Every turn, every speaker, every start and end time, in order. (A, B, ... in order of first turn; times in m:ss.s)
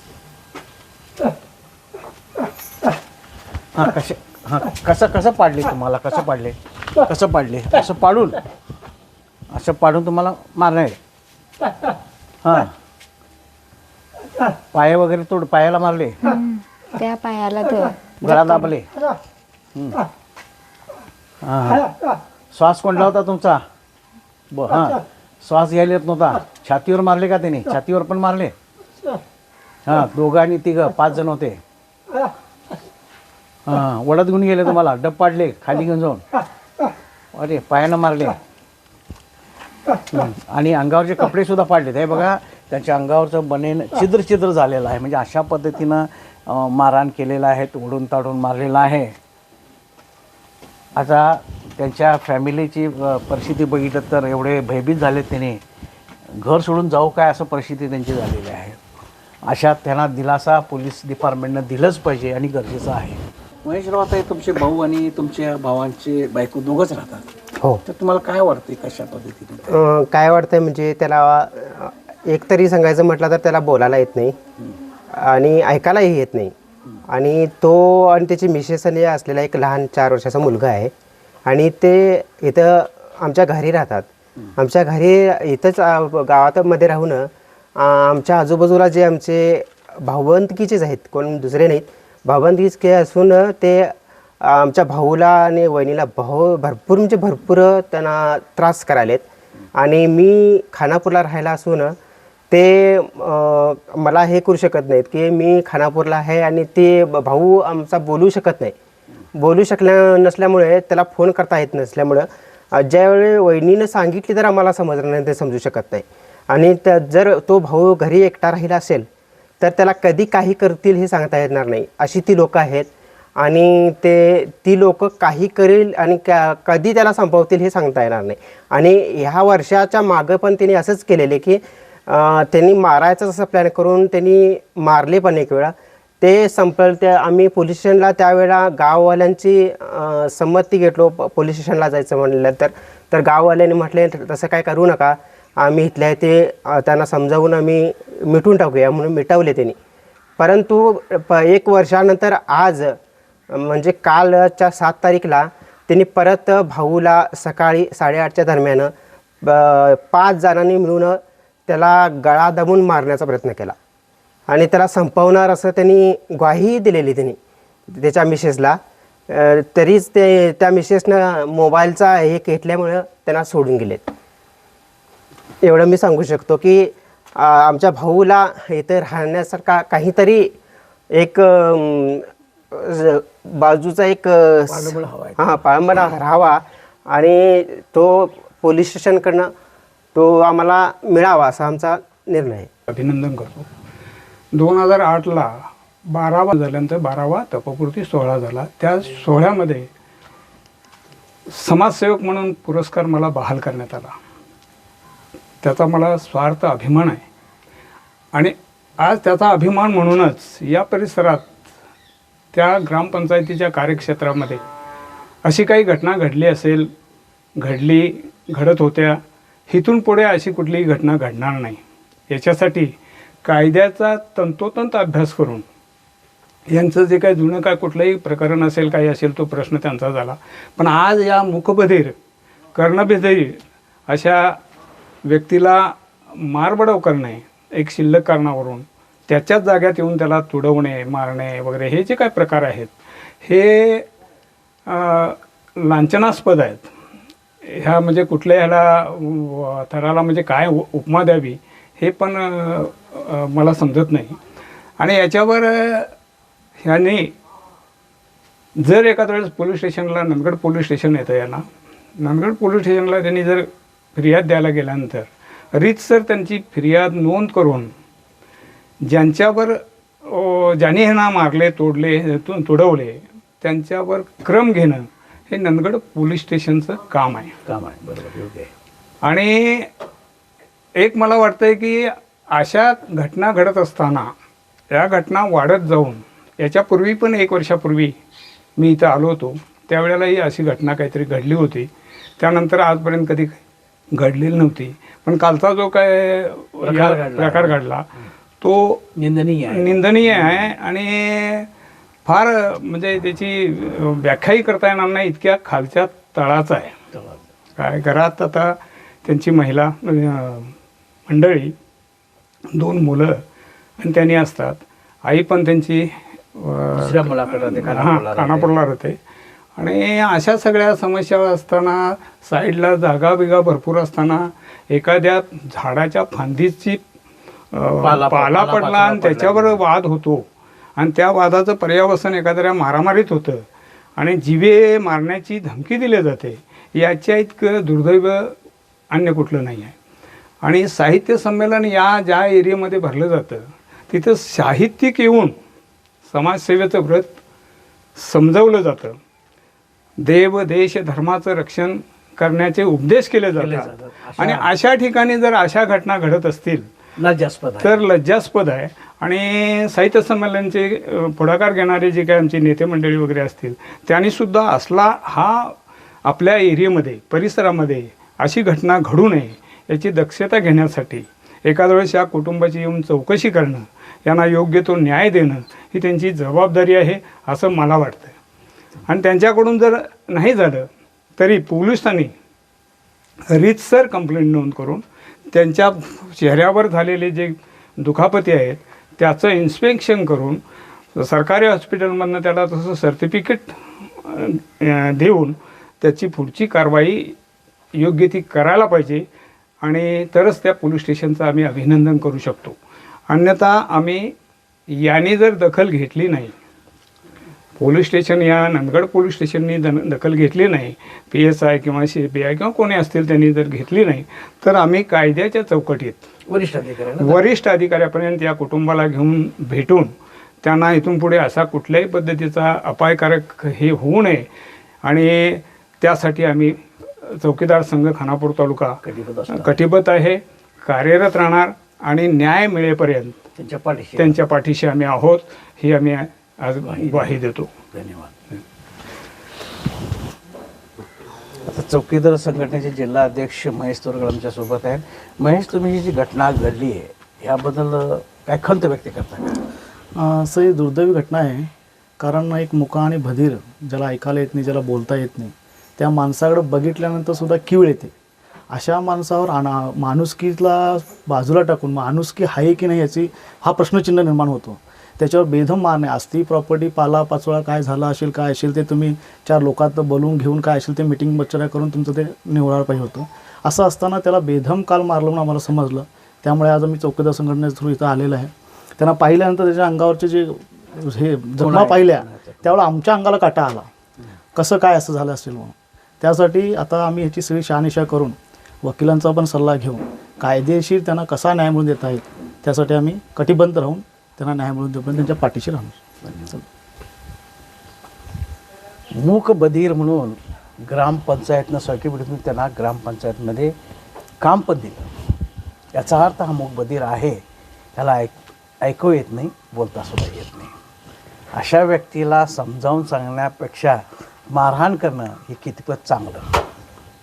0:03.7-0:08.4 A
0:09.5-0:11.0 A
0:12.4-0:12.7 A
0:14.7-0:16.2 A
0:16.2-0:18.7 B
0:18.2-0:18.9 A
0:19.8-0:20.0 A
0:21.4-0:21.9 A
0:22.5-0:23.6 A
0:24.5-0:28.5 A
0:29.9-0:31.6 A
0:33.7-0:36.2 A
0:37.3-0:38.4 A
0:40.1-0:49.2 A
0:51.0-0:55.6 A
0:56.4-0:58.8 A
0:59.4-1:07.2 A
1:07.8-1:09.8 A
1:09.7-1:14.4 C
1:15.1-1:16.5 C
1:17.1-1:20.9 C
1:21.5-1:42.0 C
1:42.5-1:48.8 C
1:49.4-1:59.1 C
1:59.6-2:29.8 C
2:30.4-2:33.0 C
2:33.5-2:38.9 C
2:39.4-2:43.8 C
2:44.5-2:47.4 C
2:47.9-2:48.8 C
2:49.3-2:54.0 C
2:55.6-3:00.5 C
3:01.1-3:09.5 C
3:04.7-3:05.6 A
3:10.2-3:12.7 C
3:12.9-3:13.7 D
3:14.6-3:19.9 D
3:21.5-3:24.2 D
3:25.6-3:27.2 D
3:28.4-3:31.5 D
3:32.5-3:34.6 D
3:35.4-3:36.9 D
3:37.6-3:39.2 D
3:39.7-3:45.6 D
3:46.7-3:52.2 D
3:52.8-3:54.6 D
3:55.3-4:04.1 D
4:04.9-4:06.9 D
4:07.6-4:14.4 D
4:15.0-4:16.1 D
4:16.8-4:17.3 D
4:18.8-4:21.6 D
4:22.2-4:27.9 D
4:29.1-4:37.6 D
4:37.7-4:38.7 A
4:39.2-4:39.9 D
4:41.0-4:44.3 D
4:44.9-4:48.2 D
4:48.8-4:53.6 D
4:54.2-4:58.0 D
4:56.8-4:57.8 A
4:58.6-4:59.1 D
4:59.2-5:00.7 A
4:59.7-5:01.7 D
5:02.3-5:07.0 D
5:07.1-5:07.4 A
5:07.8-5:10.7 D
5:11.3-5:11.7 D
5:12.7-5:13.4 D
5:14.0-5:19.2 D
5:17.0-5:18.7 A
5:19.8-5:27.0 D
5:27.7-5:30.4 D
5:28.0-5:29.8 A
5:31.0-5:33.6 D
5:34.2-5:38.6 D
5:39.1-5:40.0 D
5:40.6-5:45.6 D
5:46.3-5:47.4 D
5:48.2-5:49.2 D
5:50.2-5:56.9 D
5:53.6-5:54.7 A
5:57.2-5:58.0 A
5:57.8-6:18.4 D
6:19.1-6:22.3 D
6:23.5-6:30.6 D
6:31.2-6:37.4 D
6:38.0-6:39.3 D
6:39.8-6:42.8 D
6:43.3-6:44.3 D
6:44.9-6:46.5 D
6:47.8-6:56.3 D
6:56.5-6:57.4 A
6:57.2-7:00.1 D
7:00.6-7:04.5 D
7:05.0-7:09.0 D
7:09.0-7:09.8 A
7:09.5-7:13.4 D
7:13.6-7:14.4 A
7:14.2-7:17.7 D
7:16.9-7:17.4 A
7:17.9-7:18.3 A
7:21.6-7:29.6 A
7:30.2-7:31.7 E
7:32.2-7:38.1 E
7:38.7-8:03.9 E
8:01.6-8:02.8 A
8:04.6-8:16.0 E
8:16.2-8:16.6 A
8:19.2-8:23.7 A
8:24.4-8:25.1 A
8:25.9-8:27.4 A
8:28.0-8:30.7 A
8:31.6-8:34.0 A
8:34.5-8:36.5 A